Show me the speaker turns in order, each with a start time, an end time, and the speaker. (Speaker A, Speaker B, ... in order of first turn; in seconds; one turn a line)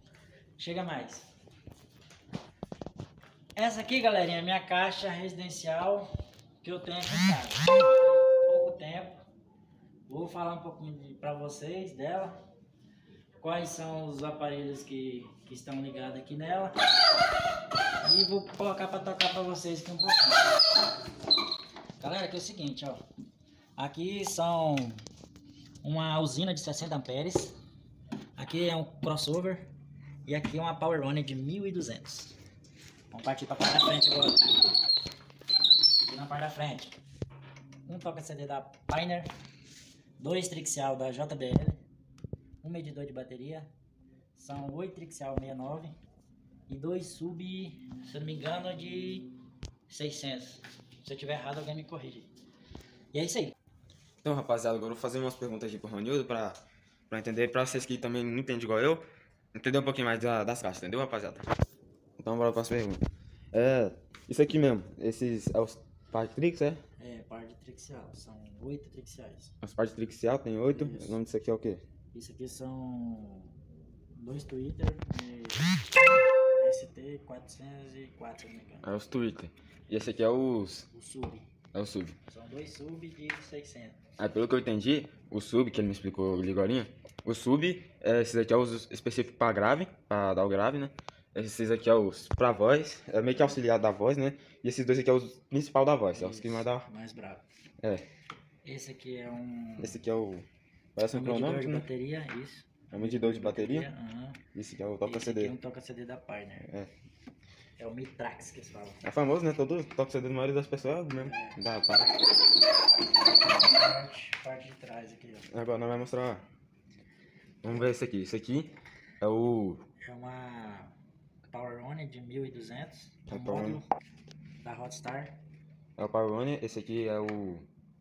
Speaker A: 0.6-1.3
Speaker A: 3.6-6.1
Speaker A: 6.6-9.2
Speaker A: 10.1-12.3
Speaker A: 13.4-16.7
Speaker A: 18.0-20.5
Speaker A: 22.0-23.0
Speaker A: 23.8-25.0
Speaker A: 25.8-27.6
Speaker A: 28.4-29.7
Speaker A: 30.2-32.4
Speaker A: 33.1-34.4
Speaker A: 36.0-37.0
Speaker A: 37.9-39.3
Speaker A: 40.2-41.8
Speaker A: 42.6-43.7
Speaker A: 44.4-46.0
Speaker A: 46.7-49.3
Speaker A: 49.9-52.3
Speaker A: 53.1-53.5
Speaker B: 54.2-61.5
Speaker B: 62.2-66.8
Speaker A: 67.0-69.5
Speaker B: 69.6-71.8
Speaker A: 70.7-71.2
Speaker A: 72.1-73.6
Speaker A: 74.1-75.8
Speaker A: 76.6-78.9
Speaker B: 78.8-80.9
Speaker A: 80.9-81.5
Speaker B: 81.7-82.2
Speaker A: 82.3-84.0
Speaker B: 84.2-96.9
Speaker A: 96.1-97.5
Speaker A: 98.6-100.0
Speaker B: 99.8-101.9
Speaker A: 101.1-104.4
Speaker B: 102.9-103.9
Speaker B: 104.5-105.6
Speaker A: 105.0-106.7
Speaker B: 106.6-106.9
Speaker A: 107.8-109.0
Speaker B: 109.0-112.1
Speaker A: 111.2-111.6
Speaker A: 113.6-115.5
Speaker B: 115.5-116.4
Speaker B: 117.6-119.8
Speaker A: 120.0-120.9
Speaker A: 121.5-123.9
Speaker B: 123.3-123.8
Speaker A: 124.6-125.4
Speaker B: 126.0-127.7